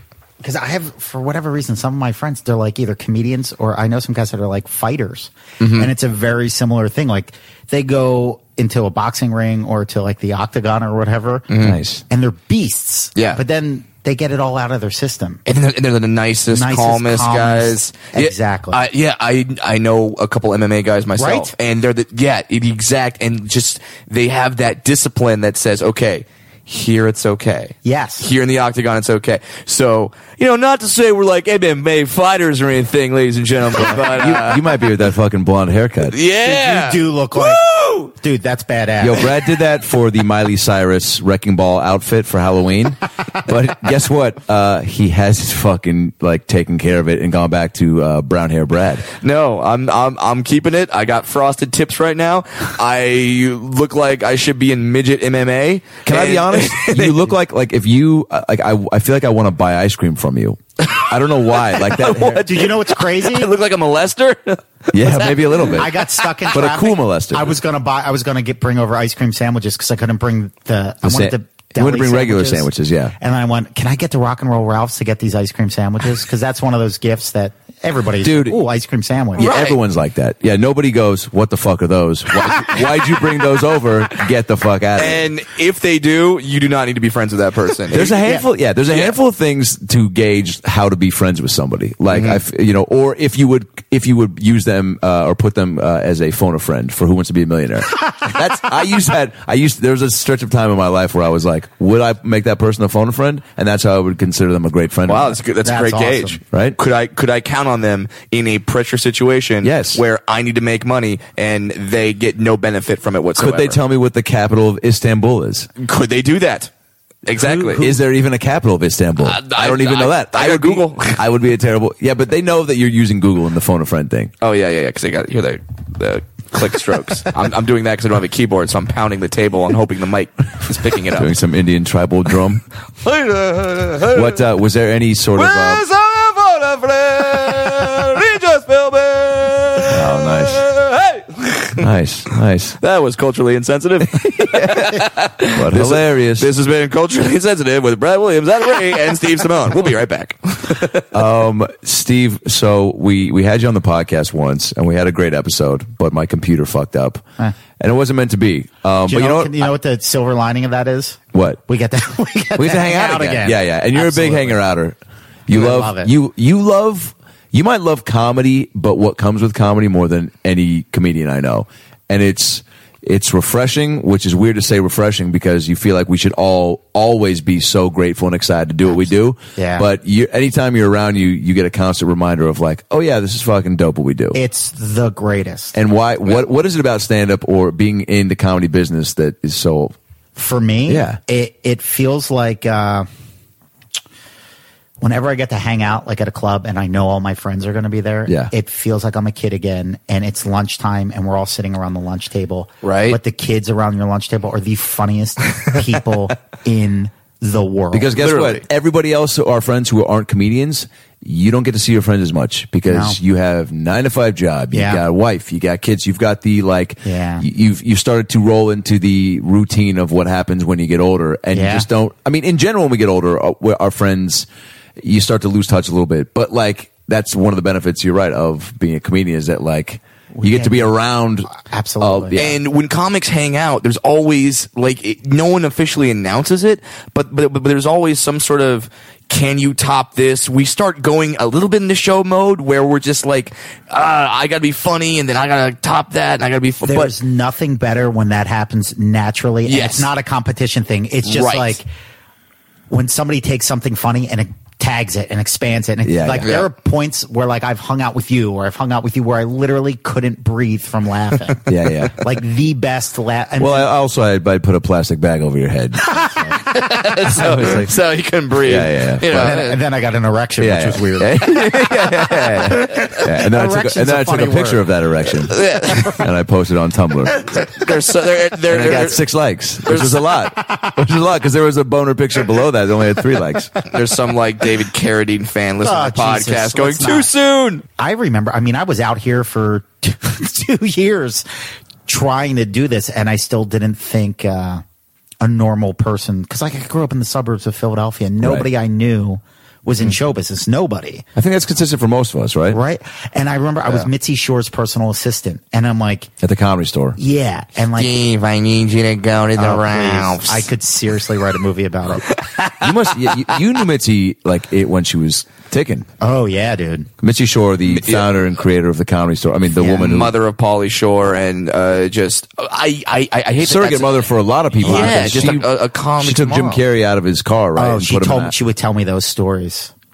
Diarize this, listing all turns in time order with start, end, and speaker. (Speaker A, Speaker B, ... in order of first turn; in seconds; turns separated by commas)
Speaker A: 0.4-11.5, Speaker B: 5.6-5.9, Speaker B: 11.5-11.8, Speaker C: 11.6-12.0, Speaker A: 12.1-15.4, Speaker B: 15.5-34.8, Speaker A: 16.5-18.8, Speaker A: 21.2-21.5, Speaker A: 27.8-28.3, Speaker C: 33.9-36.2, Speaker B: 36.1-38.1, Speaker A: 36.4-39.3, Speaker C: 39.0-49.1, Speaker B: 49.2-57.3, Speaker C: 56.0-62.4, Speaker B: 60.8-66.2, Speaker A: 62.5-63.5, Speaker C: 64.9-65.9, Speaker A: 65.8-79.5, Speaker C: 66.5-67.6, Speaker C: 71.0-73.2, Speaker C: 78.2-78.6, Speaker C: 79.4-85.3, Speaker B: 79.4-79.8, Speaker B: 82.5-82.8, Speaker B: 85.0-88.2, Speaker C: 87.9-105.4, Speaker B: 92.1-92.4, Speaker B: 105.1-113.8, Speaker A: 105.6-106.4, Speaker C: 106.5-106.8, Speaker C: 109.6-110.0, Speaker C: 113.4-115.7, Speaker B: 115.8-116.7, Speaker B: 117.3-118.0, Speaker C: 117.3-124.3, Speaker B: 119.2-121.2, Speaker B: 124.4-131.3, Speaker C: 131.1-132.7, Speaker B: 133.0-134.4, Speaker C: 134.1-135.8, Speaker B: 135.4-141.9, Speaker C: 139.9-140.7, Speaker C: 141.8-142.8, Speaker B: 142.8-151.1, Speaker C: 144.0-146.5, Speaker C: 151.1-157.2, Speaker C: 157.8-159.7, Speaker A: 159.1-164.6, Speaker C: 161.3-161.6, Speaker C: 162.6-184.4, Speaker A: 165.5-166.1, Speaker A: 179.6-179.9, Speaker A: 184.3-185.8, Speaker C: 185.8-190.0, Speaker A: 190.4-193.1, Speaker C: 190.9-191.2, Speaker A: 195.0-208.2, Speaker C: 198.3-198.5, Speaker B: 202.8-203.2, Speaker C: 207.9-224.5, Speaker B: 208.2-208.6, Speaker A: 212.9-213.2, Speaker A: 214.7-215.0, Speaker A: 217.0-217.5, Speaker A: 221.5-221.9, Speaker C: 225.0-232.6, Speaker A: 230.3-230.9, Speaker A: 231.5-232.4, Speaker B: 232.4-247.1, Speaker A: 246.8-251.9, Speaker B: 249.7-250.1, Speaker B: 251.2-251.8, Speaker A: 252.9-263.9, Speaker C: 256.0-256.5, Speaker B: 256.4-256.7, Speaker C: 261.7-262.3, Speaker C: 263.6-266.2, Speaker A: 266.1-266.6, Speaker B: 266.7-269.8, Speaker C: 267.2-267.9, Speaker C: 268.6-269.5, Speaker A: 269.3-271.5, Speaker C: 270.6-277.4, Speaker B: 271.7-272.7, Speaker A: 272.7-274.9, Speaker B: 275.5-276.2, Speaker B: 277.5-279.2, Speaker C: 278.7-283.8, Speaker B: 279.9-280.4, Speaker B: 283.9-287.8, Speaker A: 285.8-287.3, Speaker A: 288.0-291.5, Speaker A: 292.1-294.8, Speaker A: 295.4-301.2, Speaker C: 298.4-298.7, Speaker C: 301.4-302.8, Speaker A: 302.7-306.3, Speaker C: 306.4-307.2, Speaker A: 307.2-308.2, Speaker B: 308.0-310.7, Speaker A: 309.6-312.3, Speaker B: 312.3-312.9, Speaker C: 312.8-316.1, Speaker A: 316.2-317.1, Speaker C: 317.2-320.4, Speaker B: 317.9-318.3, Speaker B: 319.9-324.2, Speaker C: 323.6-328.6, Speaker B: 324.8-326.8, Speaker A: 327.8-329.9